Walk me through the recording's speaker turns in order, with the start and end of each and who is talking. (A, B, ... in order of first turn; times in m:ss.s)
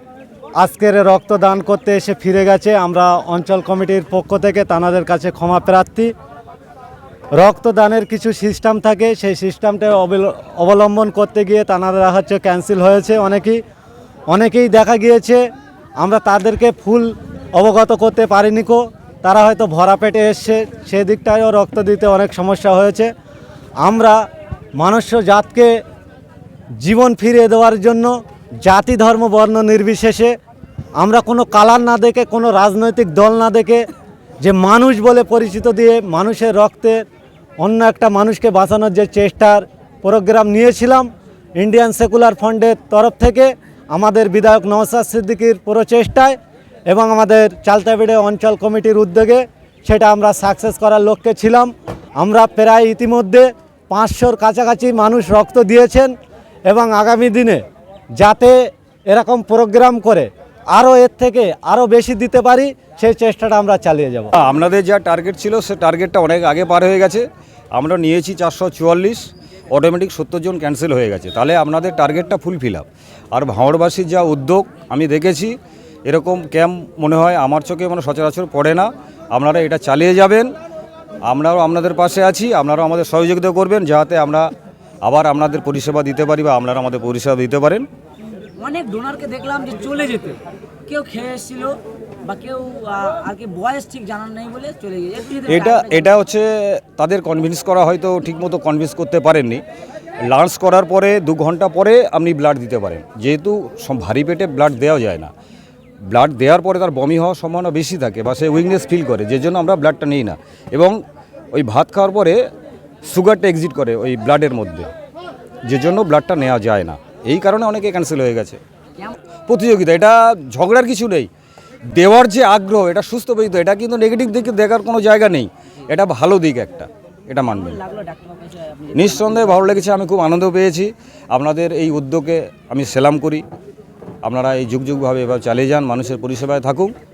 0:00.6-0:06.1 A
0:07.4-0:13.6 A
0:14.3-0:15.4 A
0:16.0-0:23.1 A
0:23.8-0:24.2 A
0:24.8-0:25.8 A
0:26.8-0:30.4 A
0:31.0-0:33.9 A
0:34.4-0:37.0 A
0:37.6-0:46.4 A
0:46.9-0:56.1 A
0:56.7-0:57.6 A
0:58.2-1:04.3 A
1:04.3-1:20.5 B
1:21.3-1:24.5 B
1:25.0-1:27.8 B
1:28.6-1:36.1 C
1:35.5-1:39.6 B
1:40.3-1:45.3 B
1:46.1-1:51.0 B
1:51.5-1:52.4 B
1:53.1-1:54.9 B
1:55.6-1:58.6 B
1:59.5-2:01.3 B
2:01.9-2:07.8 B
2:07.4-2:09.7 C
2:08.9-2:13.4 B
2:14.2-2:16.9 B